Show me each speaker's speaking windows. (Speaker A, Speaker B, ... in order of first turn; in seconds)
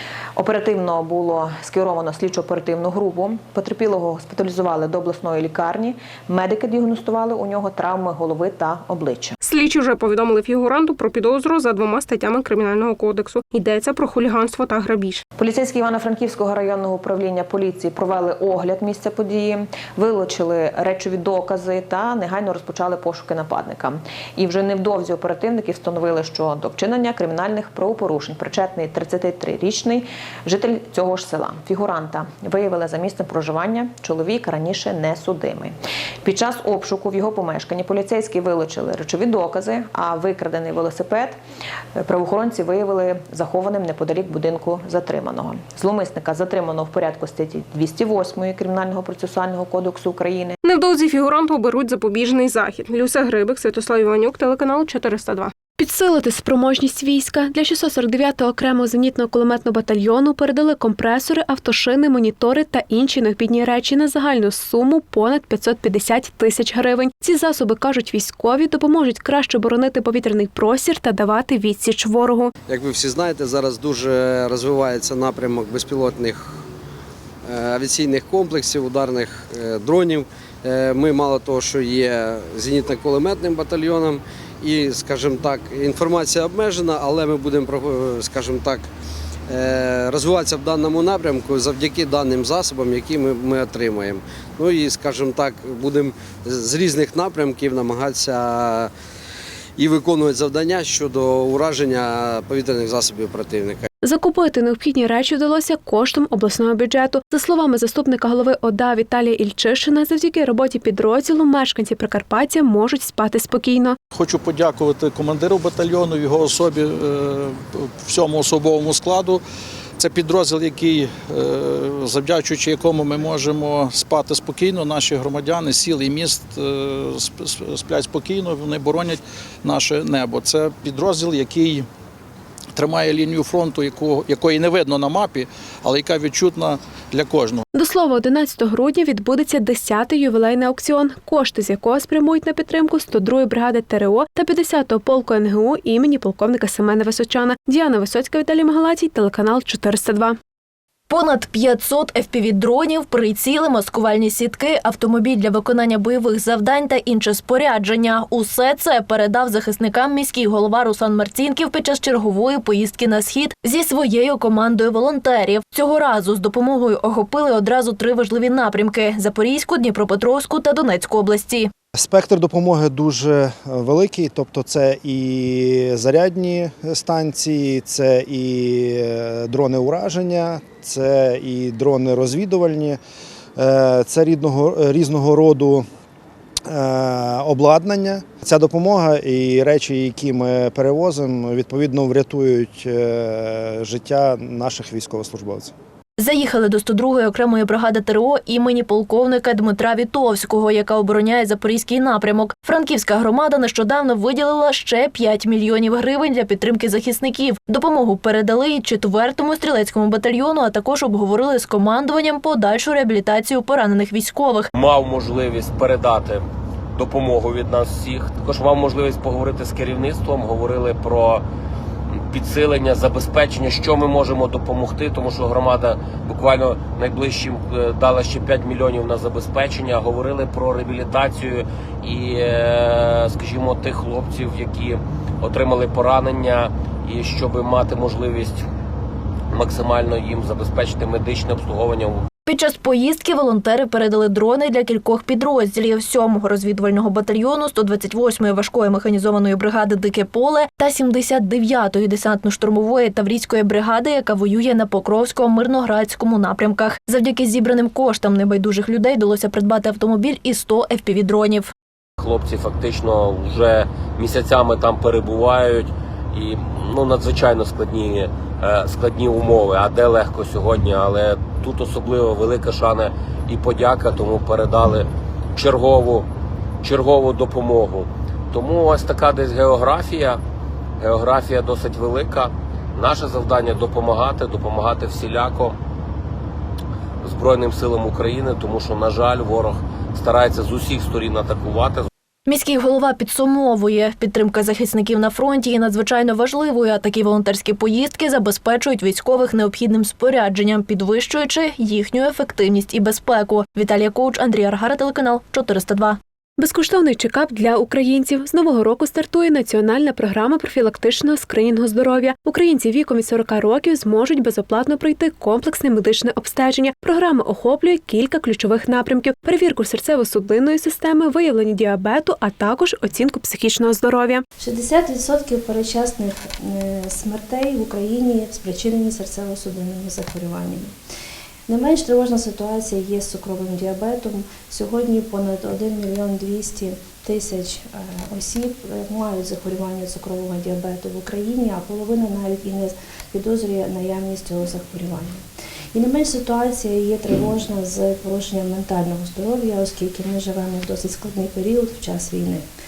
Speaker A: 0.4-9.4, 15.4-41.4, 42.0-50.6
Speaker B: 9.4-15.2, 50.6-55.5
Speaker C: 55.8-72.5, 104.0-114.0, 137.7-150.4, 306.6-324.4
Speaker D: 72.7-76.5, 77.4-88.9, 89.5-98.9, 99.8-103.9
Speaker E: 114.1-119.4, 120.0-131.8, 132.8-137.6
Speaker F: 151.1-171.7, 196.2-214.7, 242.4-261.7, 292.5-306.2
Speaker G: 171.9-183.0, 183.6-185.8, 186.7-195.7
Speaker H: 214.7-216.4, 217.0-221.4, 222.3-238.6, 239.5-242.2, 262.2-276.2, 276.8-280.4, 281.0-285.7, 287.2-292.1
Speaker I: 324.6-330.9, 331.7-345.4, 345.9-352.6